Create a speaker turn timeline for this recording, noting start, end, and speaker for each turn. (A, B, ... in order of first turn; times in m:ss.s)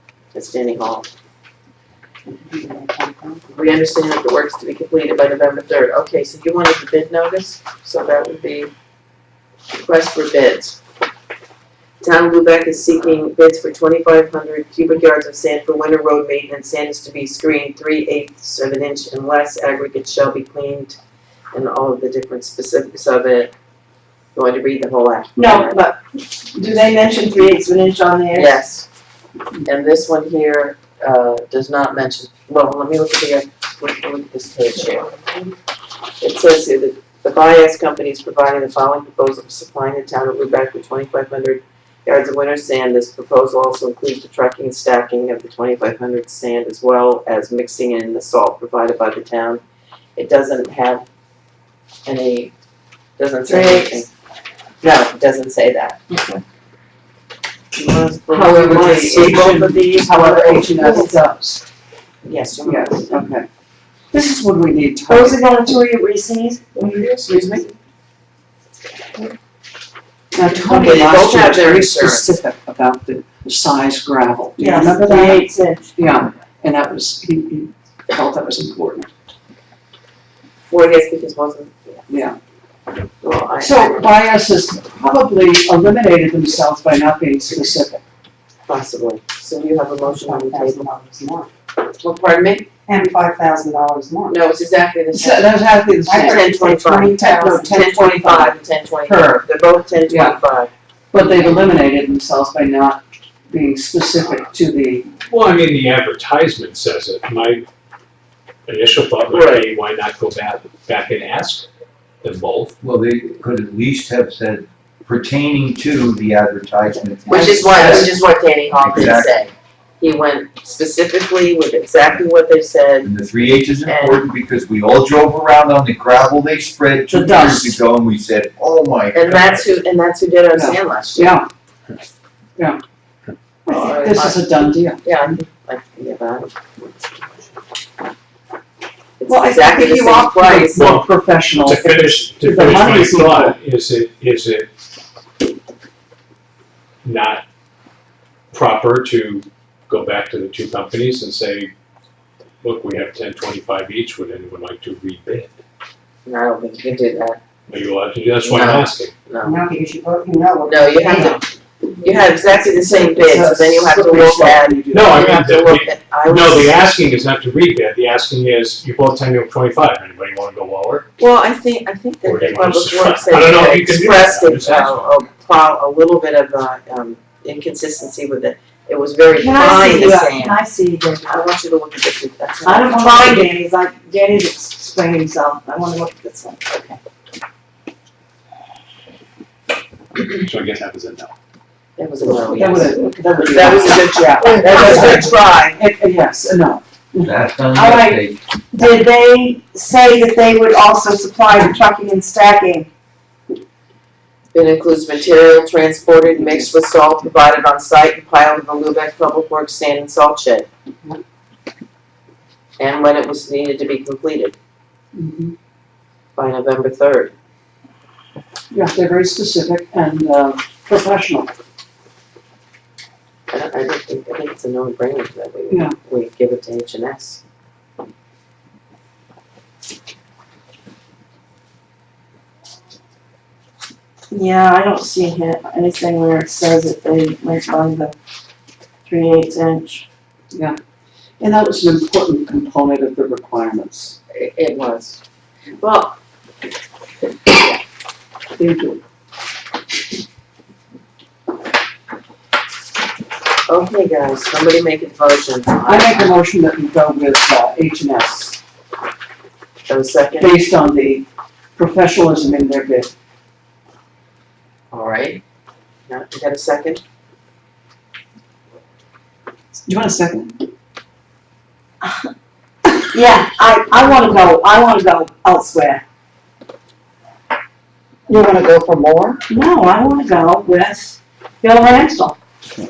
0:00.3-0:01.1 A
0:02.5-0:03.4 B
0:03.5-0:08.7 A
0:09.7-0:10.8 A
0:12.0-0:21.0 A
0:21.5-0:23.5 A
0:24.3-0:25.8 A
0:25.4-0:26.0 B
0:26.5-0:28.6 B
0:28.3-0:28.8 A
0:29.6-0:35.1 A
0:36.2-0:49.6 A
0:50.2-0:51.0 A
0:52.0-0:52.5 A
0:53.2-0:54.1 A
0:53.5-0:54.0 B
0:54.8-0:56.1 A
0:56.1-0:56.4 B
0:57.7-1:00.3 A
0:58.3-1:01.6 C
0:58.8-1:01.1 B
1:02.2-1:03.2 A
1:02.6-1:03.5 C
1:04.1-1:05.4 C
1:05.1-1:06.8 B
1:06.8-1:07.6 A
1:07.2-1:07.6 C
1:10.3-1:15.4 C
1:10.5-1:12.4 A
1:14.6-1:15.8 B
1:16.0-1:19.1 C
1:20.7-1:22.0 A
1:22.1-1:22.4 C
1:23.2-1:24.1 A
1:23.6-1:28.0 C
1:28.7-1:30.9 A
1:30.0-1:31.5 B
1:32.0-1:32.7 A
1:32.9-1:34.4 B
1:34.3-1:35.5 A
1:35.1-1:36.6 C
1:36.1-1:37.8 B
1:36.1-1:40.7 A
1:37.1-1:39.4 C
1:40.1-1:40.4 C
1:41.1-1:45.1 C
1:45.3-1:47.6 D
1:48.6-1:51.7 D
1:49.3-1:49.7 A
1:52.2-1:52.7 D
1:52.8-1:58.2 E
1:57.3-2:03.1 A
1:57.5-1:58.0 B
1:58.7-1:59.4 E
2:03.0-2:09.6 E
2:03.8-2:04.2 A
2:07.1-2:07.8 C
2:09.1-2:11.3 A
2:10.5-2:11.5 C
2:13.6-2:15.0 C
2:13.7-2:16.5 A
2:19.2-2:21.0 A
2:19.3-2:23.6 C
2:20.7-2:21.1 D
2:21.6-2:24.7 D
2:27.0-2:27.4 D
2:28.5-2:31.7 D
2:32.6-2:35.6 D
2:36.2-2:37.4 A
2:37.7-2:39.1 D
2:38.4-2:39.6 A
2:39.4-2:41.4 B
2:40.6-2:41.4 A
2:42.0-2:46.8 A
2:42.8-2:45.1 C
2:44.9-2:51.0 D
2:51.2-3:00.6 A
2:52.2-2:55.2 D
2:59.3-3:01.3 B
3:01.2-3:03.4 A
3:02.6-3:07.0 B
3:10.2-3:11.3 D
3:12.0-3:15.8 A
3:12.5-3:17.3 C
3:17.2-3:18.4 E
3:17.7-3:22.9 B
3:24.5-3:30.7 A
3:32.8-3:34.6 A
3:35.1-3:35.5 C
3:36.4-3:37.3 A
3:38.7-3:41.5 C
3:43.5-3:47.4 A
3:54.3-3:58.1 B
3:59.0-4:00.0 B
4:01.4-4:04.2 C
4:04.3-4:05.2 A
4:05.8-4:06.2 A
4:07.5-4:07.8 A
4:08.6-4:09.0 C
4:13.7-4:16.3 A
4:15.9-4:18.6 C
4:19.9-4:20.5 A
4:20.4-4:23.1 C
4:24.9-4:25.4 A
4:26.1-4:27.0 A
4:29.8-4:30.6 C
4:33.0-4:36.0 B
4:38.3-4:42.4 B